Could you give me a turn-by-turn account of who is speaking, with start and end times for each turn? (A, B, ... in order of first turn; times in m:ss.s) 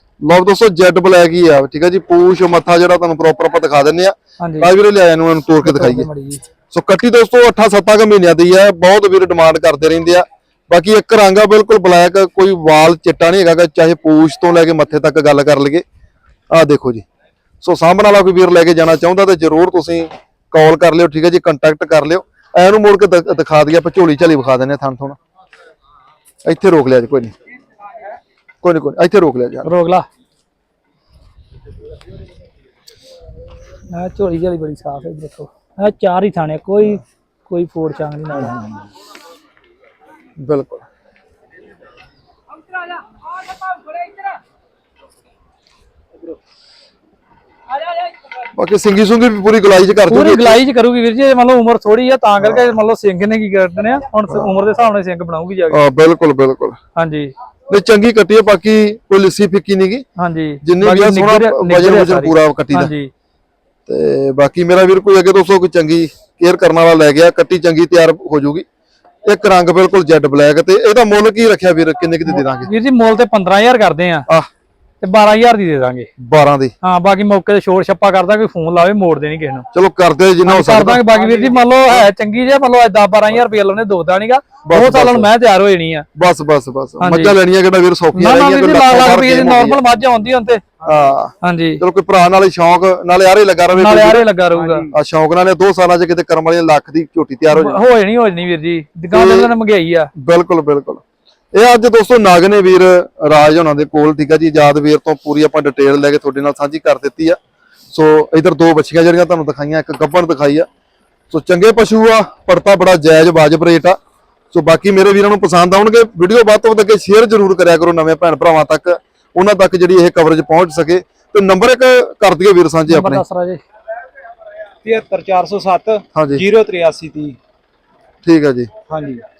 0:00.2-0:06.1 A
0:04.4-0:04.7 B
0:05.6-0:06.4 B
0:06.7-0:15.8 A
0:16.5-0:17.0 A
0:17.6-0:25.2 A
0:26.4-0:27.3 A
0:28.6-0:29.7 A
0:29.6-0:30.1 B
0:33.9-0:38.6 B
0:38.3-0:38.8 A
0:40.4-0:40.9 A
0:43.6-0:44.2 B
0:48.6-0:50.6 A
0:50.1-0:55.8 B
0:52.4-0:52.7 A
0:55.7-0:56.8 A
0:57.0-0:57.3 B
0:57.7-1:00.0 A
1:00.2-1:03.1 B
1:00.6-1:02.9 A
1:03.9-1:08.6 A
1:09.3-1:12.7 A
1:12.3-1:14.3 B
1:15.0-1:16.1 B
1:16.2-1:16.7 A
1:16.8-1:19.7 B
1:19.7-1:21.0 A
1:20.5-1:26.1 B
1:21.1-1:22.0 C
1:24.6-1:25.3 A
1:26.2-1:29.8 A
1:27.0-1:27.4 B
1:28.1-1:30.6 B
1:30.8-1:31.1 C
1:30.9-1:34.3 A
1:31.4-1:31.8 B
1:33.7-1:34.9 B
1:34.5-1:35.0 C
1:34.9-1:37.8 A
1:37.5-1:40.1 B
1:39.1-1:39.5 A
1:40.2-1:47.4 A
1:47.9-1:50.7 A
1:51.3-1:54.0 A
1:54.5-2:03.2 A
2:02.9-2:03.6 B
2:04.8-2:07.4 C
2:06.2-2:06.4 A
2:08.2-2:08.7 A
2:08.9-2:09.2 C